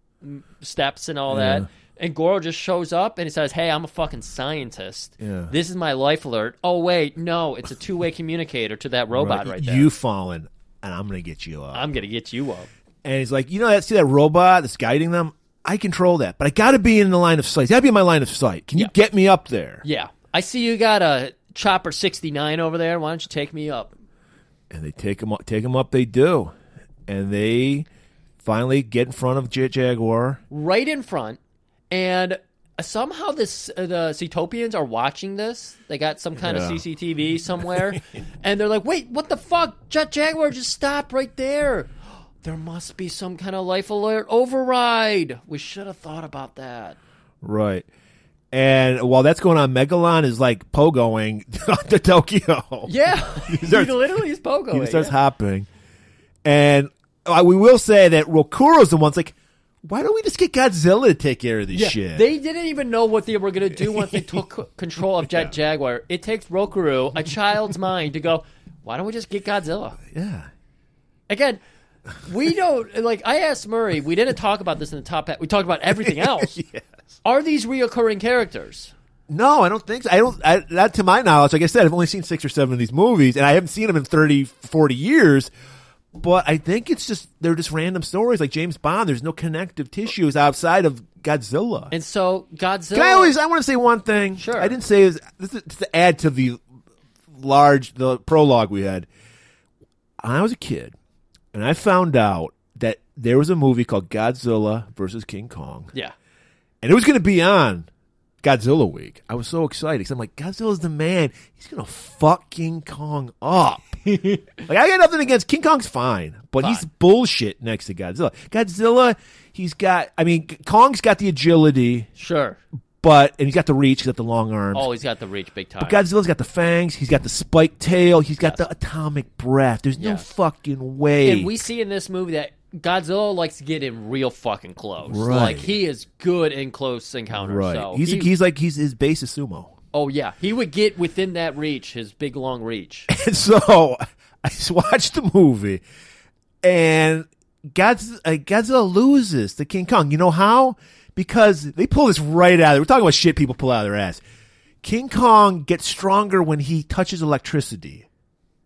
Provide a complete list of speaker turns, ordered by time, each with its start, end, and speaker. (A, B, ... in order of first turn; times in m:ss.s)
0:00.2-0:09.9 A
0:01.3-0:01.7 B
0:05.2-0:05.5 B
0:09.1-0:11.9 B
0:11.7-0:12.7 A
0:13.0-0:19.8 B
0:19.8-0:23.9 A
0:24.7-0:26.5 B
0:27.1-0:27.9 B
0:28.4-0:30.4 B
0:30.5-0:31.4 A
0:31.9-0:41.9 A
0:36.4-0:36.8 B
0:42.4-0:47.0 A
0:47.4-0:47.9 B
0:48.5-0:52.9 B
0:52.9-0:55.1 A
0:53.4-0:54.0 B
0:54.7-0:55.7 B
0:56.4-1:02.2 B
1:01.7-1:10.0 A
1:03.8-1:04.3 B
1:10.1-1:10.5 B
1:11.3-1:11.6 A
1:12.2-1:16.6 A
1:16.0-1:16.9 B
1:17.2-1:18.9 A
1:19.3-1:25.5 B
1:26.2-1:31.9 B
1:31.9-1:33.4 A
1:32.9-1:36.6 B
1:34.4-1:34.8 A
1:37.3-1:39.1 B
1:40.2-1:41.0 B
1:41.5-1:45.9 B
1:46.8-1:47.9 B
1:48.4-1:54.0 B
1:54.1-1:54.5 A
1:54.6-2:02.1 B
1:56.6-1:56.8 A
2:02.2-2:02.6 A
2:03.0-2:04.9 B
2:04.7-2:06.0 A
2:05.8-2:11.5 B
2:10.0-2:10.3 A
2:11.2-2:18.3 A
2:15.1-2:15.7 B
2:17.3-2:19.7 B
2:19.9-2:23.1 A
2:23.1-2:25.8 B
2:26.6-2:34.2 B
2:34.8-2:38.1 B